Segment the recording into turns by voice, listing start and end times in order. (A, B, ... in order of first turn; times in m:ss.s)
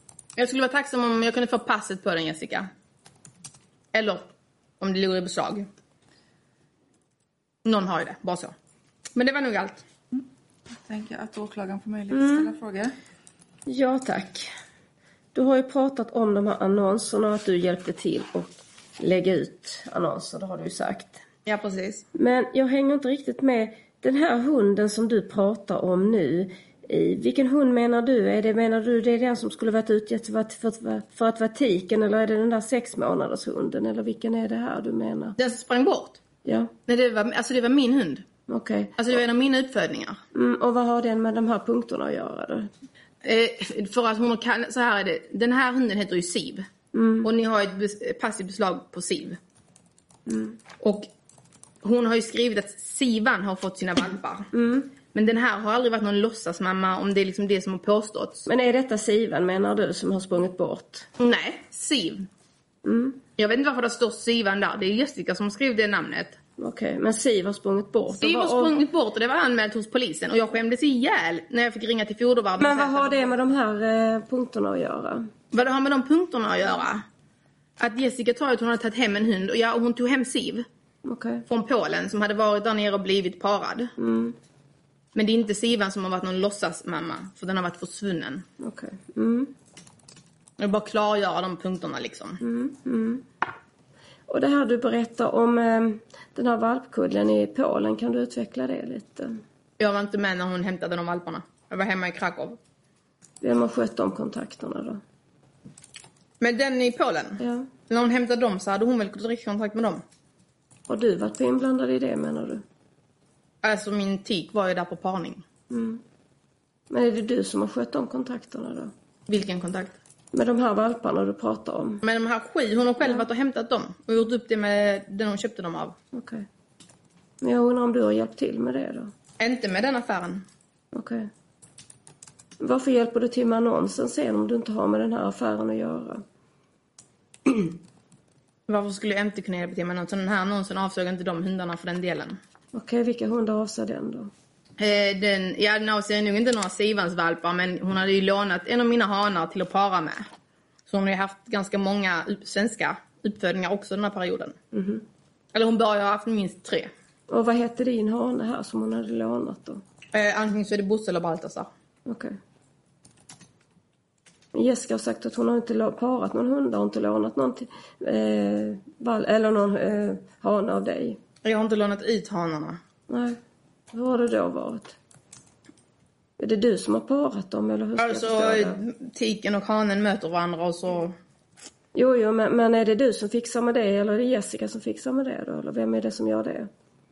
0:00.4-0:02.7 A
0:03.9-0:04.3 A
0:04.8-0:05.7 A
0:07.6-0:08.5 A
0:09.1-0:09.8 A
0:10.8-0:12.9 B
0:12.1-0:12.5 C
0:13.7-0:14.5 C
0:15.3-0:21.2 C
0:21.4-0:22.0 A
0:22.1-0:35.4 C
0:35.4-0:36.2 A
0:36.4-0:36.7 C
0:36.9-0:38.2 A
0:38.5-0:39.0 C
0:39.0-0:40.2 A
0:40.3-0:42.7 C
0:43.2-0:46.7 A
0:46.9-0:47.3 C
0:47.2-0:49.4 A
0:50.3-0:50.6 C
0:50.8-0:51.1 A
0:51.8-0:54.5 A
0:54.5-0:54.9 C
0:55.1-0:58.5 A
0:58.5-1:01.1 C
1:01.2-1:02.3 A
1:02.8-1:03.2 C
1:03.4-1:06.4 A
1:06.6-1:08.8 C
1:08.2-1:13.3 A
1:12.6-1:15.3 C
1:15.5-1:17.0 A
1:17.8-1:20.6 A
1:21.0-1:21.4 C
1:21.5-1:23.9 A
1:24.0-1:24.4 C
1:25.1-1:28.4 A
1:28.6-1:29.5 C
1:30.6-1:32.4 A
1:32.4-1:33.3 C
1:34.3-1:39.4 C
1:39.8-1:42.6 A
1:43.4-1:45.0 C
1:46.4-1:50.0 A
1:47.4-1:47.7 C
1:50.9-1:52.6 C
1:53.6-1:55.4 A
1:55.7-1:56.0 C
1:56.9-1:58.9 C
1:59.3-2:00.0 A
2:00.3-2:02.0 C
2:02.0-2:06.0 A
2:06.1-2:06.5 C
2:07.4-2:09.1 C
2:09.4-2:10.4 A
2:10.9-2:11.3 C
2:12.6-2:16.2 C
2:18.7-2:22.4 A
2:22.7-2:24.3 C
2:24.8-2:30.3 A
2:30.9-2:34.6 A
2:34.7-2:35.0 C
2:35.5-2:36.9 A
2:37.3-2:39.8 C
2:40.1-2:41.7 A
2:42.0-2:42.4 C
2:44.5-2:51.2 C
2:51.4-2:52.8 A
2:53.1-2:53.4 C
2:53.9-2:55.0 C
2:56.4-2:58.8 C
2:58.0-3:01.1 A
3:01.9-3:06.7 C